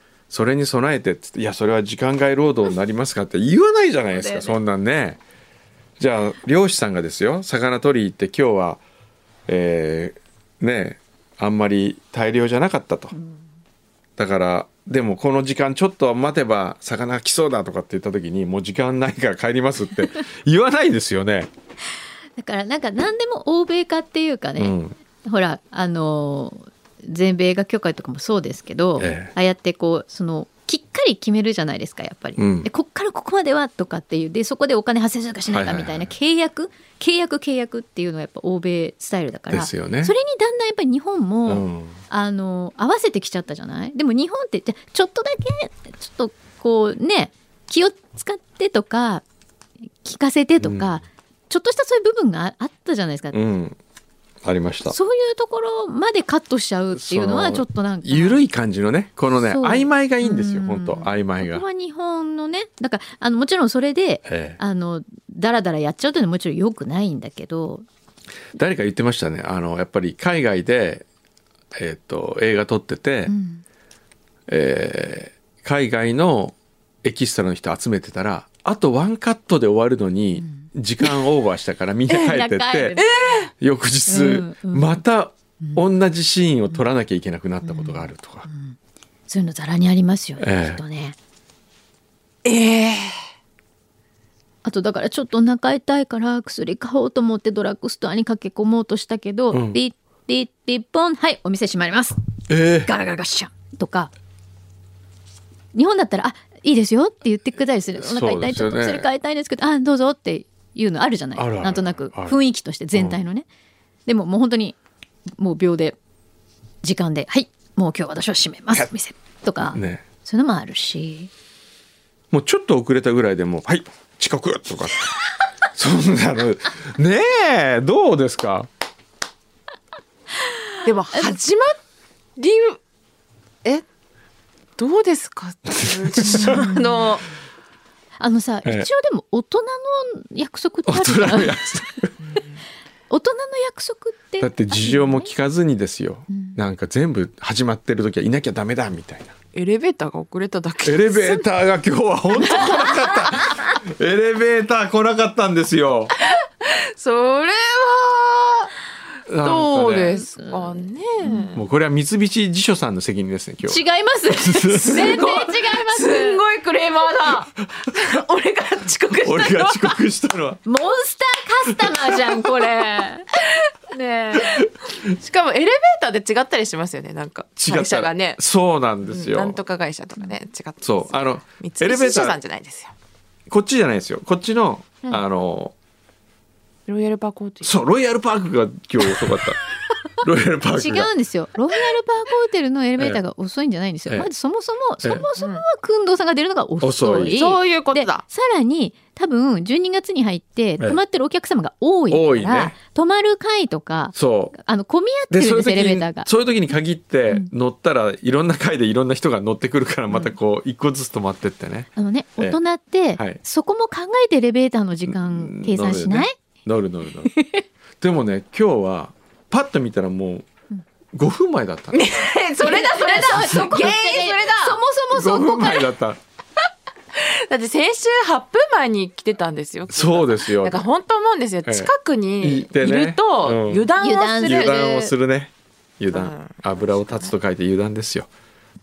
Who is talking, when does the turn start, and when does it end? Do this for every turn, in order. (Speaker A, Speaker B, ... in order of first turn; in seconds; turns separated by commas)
Speaker A: 0.3-5.2, Speaker B: 4.1-4.5, Speaker A: 6.0-8.8, Speaker A: 9.5-13.1, Speaker B: 13.1-13.4, Speaker A: 14.2-21.5, Speaker B: 22.4-49.2, Speaker A: 24.6-24.9, Speaker A: 29.0-29.3, Speaker A: 32.4-32.7, Speaker A: 35.5-36.1, Speaker A: 39.5-40.1, Speaker A: 41.5-42.0, Speaker B: 50.0-53.4, Speaker A: 50.6-50.9, Speaker A: 53.3-53.8, Speaker A: 54.4-55.0, Speaker B: 54.9-58.4, Speaker A: 56.9-61.6, Speaker B: 59.4-67.8, Speaker A: 64.3-64.6, Speaker A: 68.5-71.0, Speaker A: 71.7-73.3, Speaker B: 73.3-73.6, Speaker A: 74.5-83.0, Speaker B: 80.4-80.7, Speaker B: 82.1-83.2, Speaker C: 83.0-83.5, Speaker A: 83.6-88.5, Speaker B: 84.1-85.0, Speaker B: 87.6-88.8, Speaker B: 89.3-91.2, Speaker A: 90.4-90.8, Speaker C: 92.4-93.1, Speaker B: 94.6-102.2, Speaker A: 99.5-99.8, Speaker A: 102.5-102.9, Speaker B: 102.8-104.1, Speaker B: 105.7-113.5, Speaker A: 108.0-109.1, Speaker A: 111.4-112.4, Speaker A: 112.9-113.2, Speaker B: 114.0-114.8, Speaker B: 115.4-116.0, Speaker B: 116.8-121.3, Speaker A: 119.7-120.0, Speaker A: 122.3-125.1, Speaker A: 125.7-128.7, Speaker C: 130.8-131.8, Speaker C: 132.4-132.8, Speaker C: 134.8-137.2, Speaker A: 135.7-136.7, Speaker B: 136.3-136.9, Speaker B: 138.2-141.6, Speaker A: 140.9-142.1, Speaker B: 143.1-145.3, Speaker A: 144.4-149.3, Speaker B: 146.3-146.6, Speaker C: 149.5-151.5, Speaker A: 150.8-156.1, Speaker C: 152.4-153.1, Speaker C: 156.2-158.7, Speaker A: 159.3-160.1, Speaker C: 159.4-161.6, Speaker B: 160.2-160.6, Speaker B: 161.2-161.5, Speaker A: 161.5-163.8, Speaker B: 163.6-166.4, Speaker A: 164.3-165.2, Speaker C: 164.7-170.0, Speaker A: 169.2-170.6, Speaker B: 170.7-173.2, Speaker A: 171.7-172.4, Speaker B: 173.9-174.6, Speaker C: 175.1-178.4, Speaker A: 177.6-179.6, Speaker C: 179.1-182.9, Speaker A: 180.8-182.4, Speaker A: 183.5-185.7, Speaker C: 186.9-187.7, Speaker A: 187.6-189.6, Speaker A: 190.2-191.1, Speaker B: 190.8-206.3, Speaker C: 195.4-195.6, Speaker A: 196.8-197.4, Speaker C: 197.3-198.2, Speaker A: 202.1-202.8, Speaker A: 204.1-204.5, Speaker A: 205.3-212.6, Speaker B: 210.1-210.3, Speaker B: 211.9-216.4, Speaker A: 215.1-217.3, Speaker B: 217.3-217.6, Speaker A: 218.0-220.4, Speaker A: 221.1-222.1, Speaker C: 221.9-224.8, Speaker B: 222.6-225.9, Speaker A: 225.1-226.2, Speaker C: 227.1-234.7, Speaker A: 229.9-230.8, Speaker A: 231.6-233.9, Speaker B: 234.0-235.1, Speaker A: 234.4-238.3, Speaker C: 236.1-236.5